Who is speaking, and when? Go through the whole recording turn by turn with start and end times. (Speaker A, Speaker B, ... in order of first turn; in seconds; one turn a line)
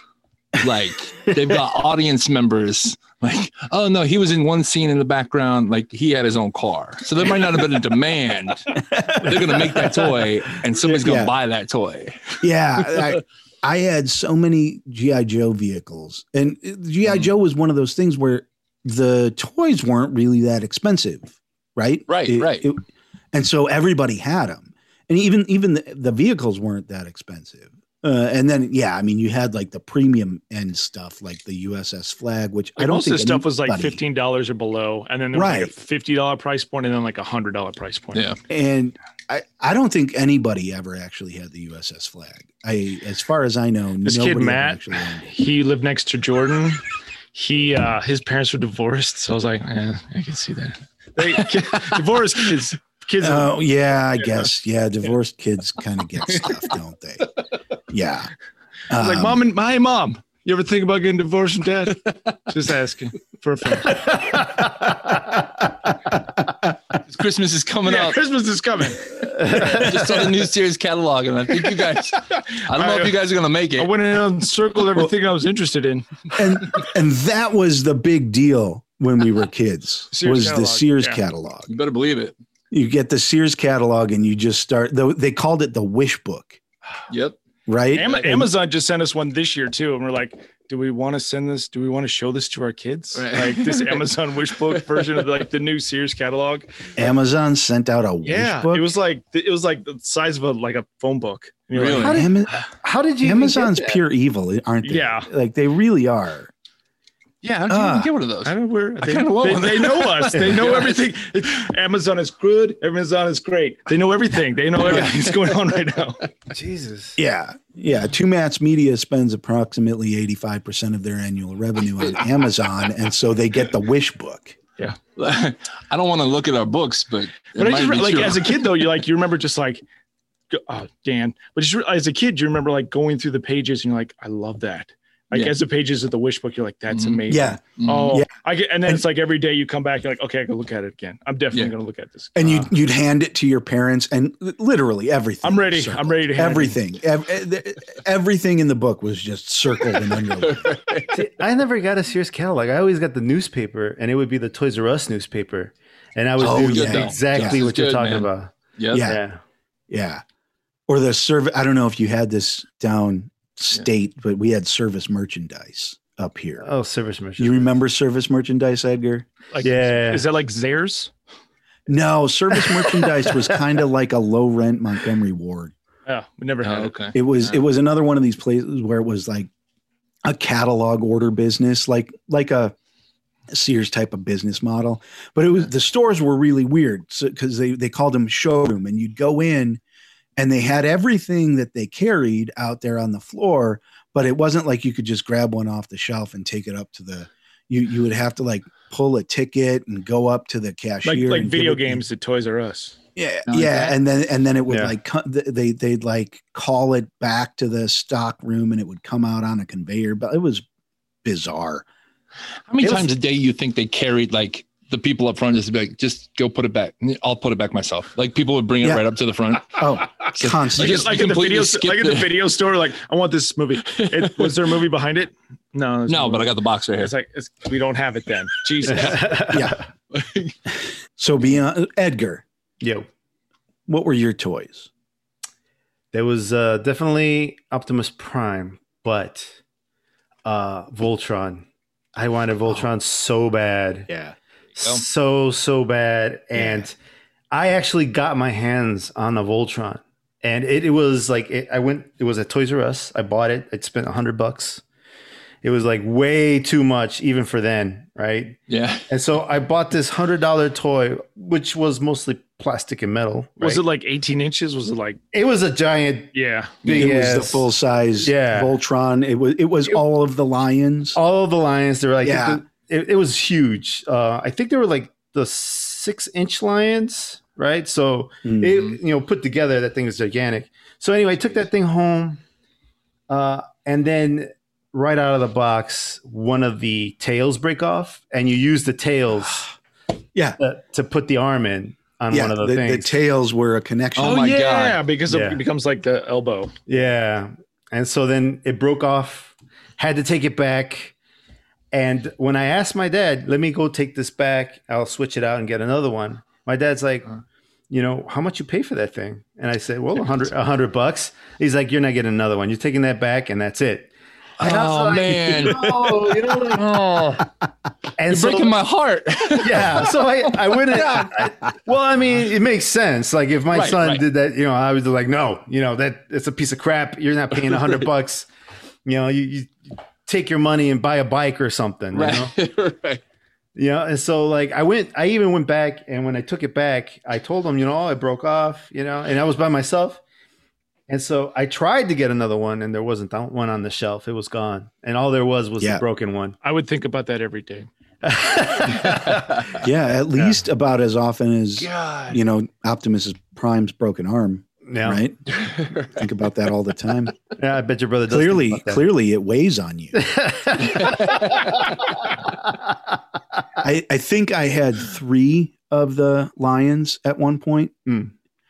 Speaker A: 0.6-13.2
Speaker B: 8.8-10.0
Speaker B: 11.0-11.3
Speaker B: 12.4-34.0
Speaker A: 22.1-22.7
Speaker C: 32.8-38.4
Speaker B: 35.3-35.7
Speaker B: 38.5-45.3
Speaker C: 44.0-53.5
Speaker B: 53.2-57.3
Speaker B: 57.9-58.3
Speaker B: 58.9-59.4
Speaker C: 58.9-64.6
Speaker A: 67.1-68.2
Speaker C: 67.9-70.1
Speaker A: 69.5-73.9
Speaker C: 72.7-73.2
Speaker C: 73.8-76.4
Speaker B: 76.3-81.7
Speaker C: 80.1-81.2
Speaker A: 81.7-82.3
Speaker B: 82.7-86.6
Speaker A: 87.1-87.4
Speaker B: 87.7-88.5
Speaker C: 87.9-96.9
Speaker A: 93.2-94.1
Speaker B: 97.0-98.9
Speaker C: 98.2-102.3
Speaker A: 101.7-102.3
Speaker D: 101.9-104.0
Speaker B: 102.0-102.7
Speaker B: 103.2-106.5
Speaker C: 104.8-105.3
Speaker A: 107.4-111.1
Speaker B: 107.7-108.2
Speaker C: 108.5-116.3
Speaker D: 116.5-117.2
Speaker B: 117.2-124.6
Speaker A: 125.2-128.9
Speaker C: 127.6-129.8
Speaker C: 130.5-142.7
Speaker A: 135.3-135.6
Speaker A: 136.9-137.2
Speaker B: 137.3-138.3
Speaker A: 137.8-138.2
Speaker B: 142.3-150.8
Speaker C: 145.4-146.8
Speaker A: 150.4-151.1
Speaker D: 151.1-159.4
Speaker B: 156.4-157.6
Speaker A: 156.5-159.1
Speaker B: 158.9-159.2
Speaker B: 159.9-160.2
Speaker B: 160.9-166.7
Speaker D: 166.6-167.8
Speaker B: 167.4-169.3
Speaker C: 169.5-171.1
Speaker D: 169.6-170.2
Speaker B: 171.9-175.7
Speaker C: 176.1-177.2
Speaker A: 176.6-177.2
Speaker B: 177.1-179.5
Speaker B: 180.2-182.8
Speaker B: 183.5-189.8
Speaker B: 190.4-202.0
Speaker C: 201.0-203.0
Speaker B: 203.2-210.6
Speaker A: 203.5-203.9
Speaker D: 204.7-204.9
Speaker B: 211.2-211.8
Speaker A: 212.7-222.4
Speaker B: 219.7-221.2
Speaker C: 220.8-229.6
Speaker A: 223.9-224.7
Speaker A: 226.1-227.1
Speaker D: 228.9-229.8
Speaker B: 229.5-229.8
Speaker A: 230.1-230.5
Speaker B: 231.2-232.4
Speaker D: 232.8-233.1
Speaker B: 233.9-234.9
Speaker D: 236.1-239.6
Speaker D: 240.4-244.1
Speaker B: 244.1-244.3
Speaker D: 244.8-246.9
Speaker B: 246.6-246.8
Speaker D: 247.5-254.8
Speaker D: 255.6-258.6
Speaker A: 258.7-259.1
Speaker D: 259.1-263.8
Speaker C: 263.6-265.2
Speaker D: 265.3-266.3
Speaker C: 266.3-266.8
Speaker D: 266.8-267.7
Speaker A: 266.9-267.1
Speaker B: 266.9-271.2
Speaker D: 268.2-268.8
Speaker D: 271.1-282.4
Speaker B: 272.2-272.6
Speaker B: 278.4-278.8
Speaker D: 283.3-289.7
Speaker B: 290.3-290.6
Speaker D: 290.6-293.2
Speaker B: 292.3-294.6
Speaker A: 294.2-295.0
Speaker C: 294.2-296.8
Speaker D: 295.3-295.6
Speaker D: 296.9-301.1
Speaker D: 301.9-307.3
Speaker D: 307.9-316.9
Speaker A: 314.6-317.5
Speaker D: 318.2-318.7
Speaker A: 318.3-320.1
Speaker D: 319.6-328.5
Speaker A: 320.9-321.3
Speaker A: 323.7-324.2
Speaker D: 329.1-332.5
Speaker A: 332.1-333.2
Speaker D: 333.8-340.2
Speaker D: 341.1-346.6
Speaker C: 346.6-347.9
Speaker D: 348.2-349.8
Speaker B: 349.7-357.4
Speaker A: 351.8-352.4
Speaker D: 354.9-355.2
Speaker A: 355.6-356.0
Speaker D: 357.6-359.1
Speaker B: 358.3-360.2
Speaker D: 360.1-362.0
Speaker A: 361.0-361.7
Speaker B: 363.8-367.9
Speaker D: 368.1-368.3